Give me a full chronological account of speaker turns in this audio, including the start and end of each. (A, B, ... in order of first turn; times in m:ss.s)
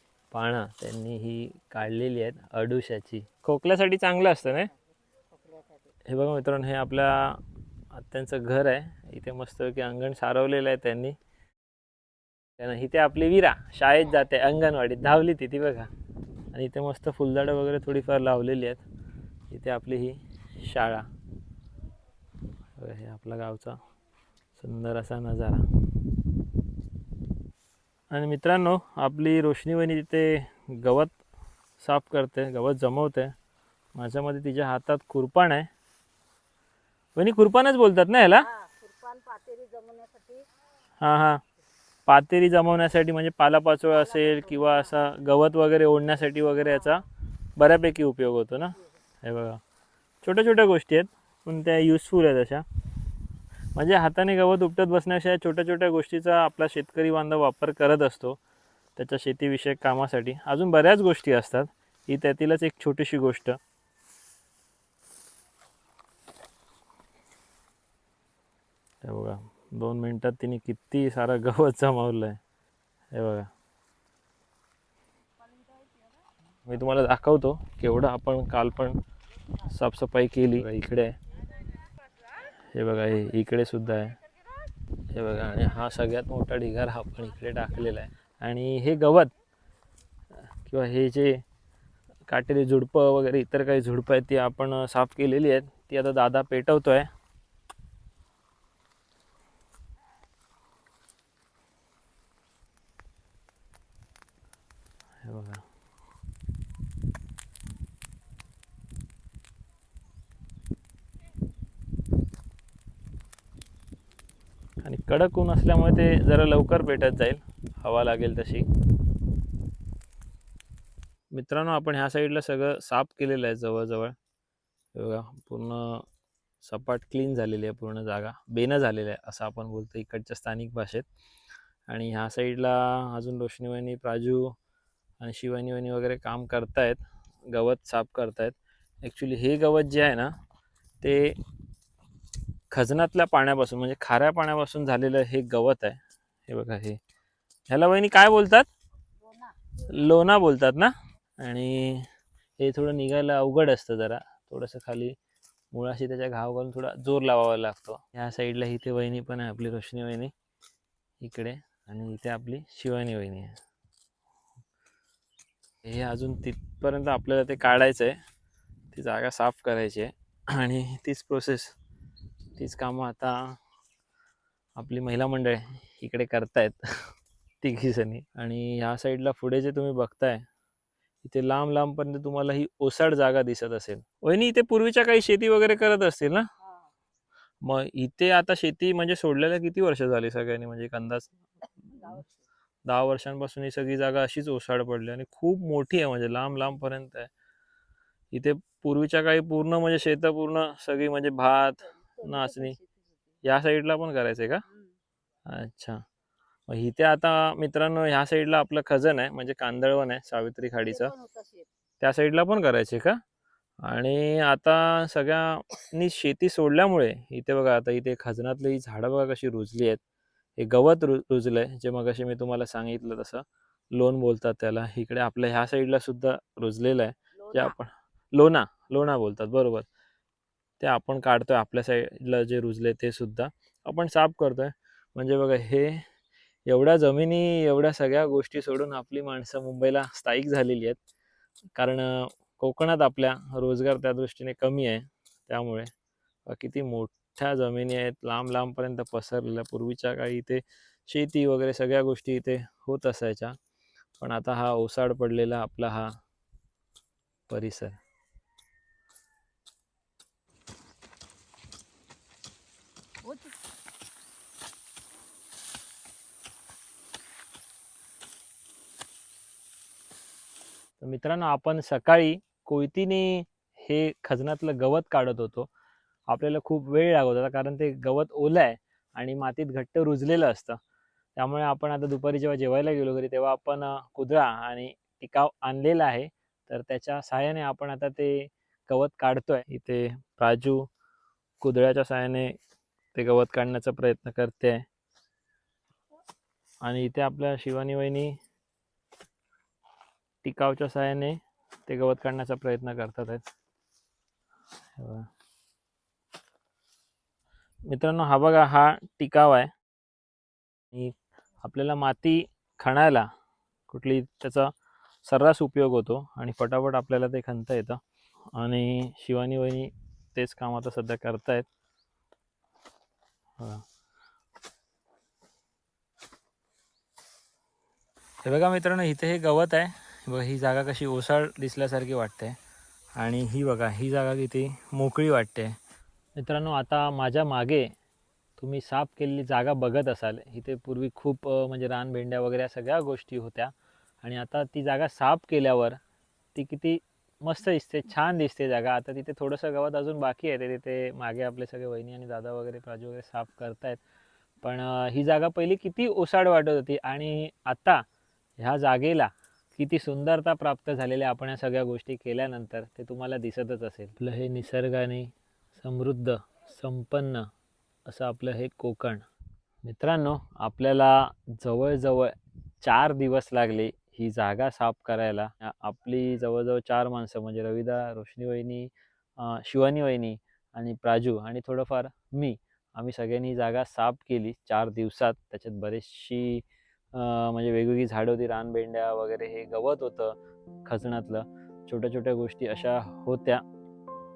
0:00.3-0:04.7 A
0:05.3-0:05.8 B
0:06.1-0:11.2 A
0:12.6-0:15.9 A
0:16.5-0:18.8 A
0:19.5-0:21.1 A
0:22.8-0:23.8 A
0:24.6-0:26.1 A
0:28.1-0:31.2 A
0:31.8-0:33.3 A
0:34.0-0:35.7 A
0:37.2-0:38.5 A
0:38.4-0:40.5 B
0:41.0-0:41.4 A
0:42.1-0:49.6 A
0:44.0-0:45.0 B
0:50.2-0:52.6 A
0:53.7-0:58.4 A
0:59.0-1:03.6 A
1:09.0-1:12.4 A
1:13.1-1:13.5 A
1:16.7-1:19.0 A
1:19.6-1:21.2 A
1:22.7-1:24.2 A
1:25.1-1:29.3 A
1:30.6-1:31.4 A
1:32.3-1:37.1 A
1:45.2-1:45.6 A
1:54.8-1:58.7 A
2:01.3-2:04.2 A
2:04.9-2:06.1 A
2:06.6-2:11.1 A
2:11.9-2:14.6 A
2:15.2-2:20.4 A
2:21.0-2:21.4 A
2:22.7-2:27.0 A
2:27.7-2:28.7 A
2:29.2-2:29.6 B
2:29.8-2:35.2 A
2:35.7-2:40.3 A
2:41.2-2:43.6 A
2:45.8-2:48.2 A
2:48.9-2:51.8 A
2:52.6-2:53.6 A
2:54.8-3:00.5 A
3:01.2-3:06.5 A
3:07.6-3:12.2 A
3:12.9-3:17.3 A
3:18.3-3:22.8 A
3:22.0-3:23.2 B
3:23.4-3:24.6 A
3:24.7-3:24.9 B
3:25.5-3:26.0 A
3:26.7-3:31.1 A
3:30.9-3:31.7 B
3:32.0-3:33.2 A
3:33.8-3:40.0 A
3:40.6-3:49.9 A
3:47.4-3:47.7 B
3:50.8-3:56.1 A
3:56.7-4:01.0 A
4:01.8-4:05.9 A
4:06.4-4:13.6 A
4:14.2-4:16.2 A
4:17.5-4:18.0 A
4:31.0-4:35.7 A
4:36.3-4:40.8 A
4:41.4-4:50.9 A
4:51.6-4:52.6 A
4:53.1-4:54.9 A
4:56.8-4:58.4 A
5:00.4-5:03.4 A
5:05.0-5:05.3 A
5:07.9-5:09.7 A
5:10.9-5:13.3 A
5:13.9-5:14.7 A
5:15.2-5:18.0 A
5:18.6-5:21.7 A
5:23.6-5:23.8 A
5:28.4-5:32.6 A
5:33.2-5:35.8 A
5:36.4-5:37.9 A
5:38.6-5:46.0 A
5:46.6-5:54.0 A
5:54.6-5:58.0 A
5:58.6-6:07.5 A
6:08.1-6:09.3 A
6:09.8-6:33.6 A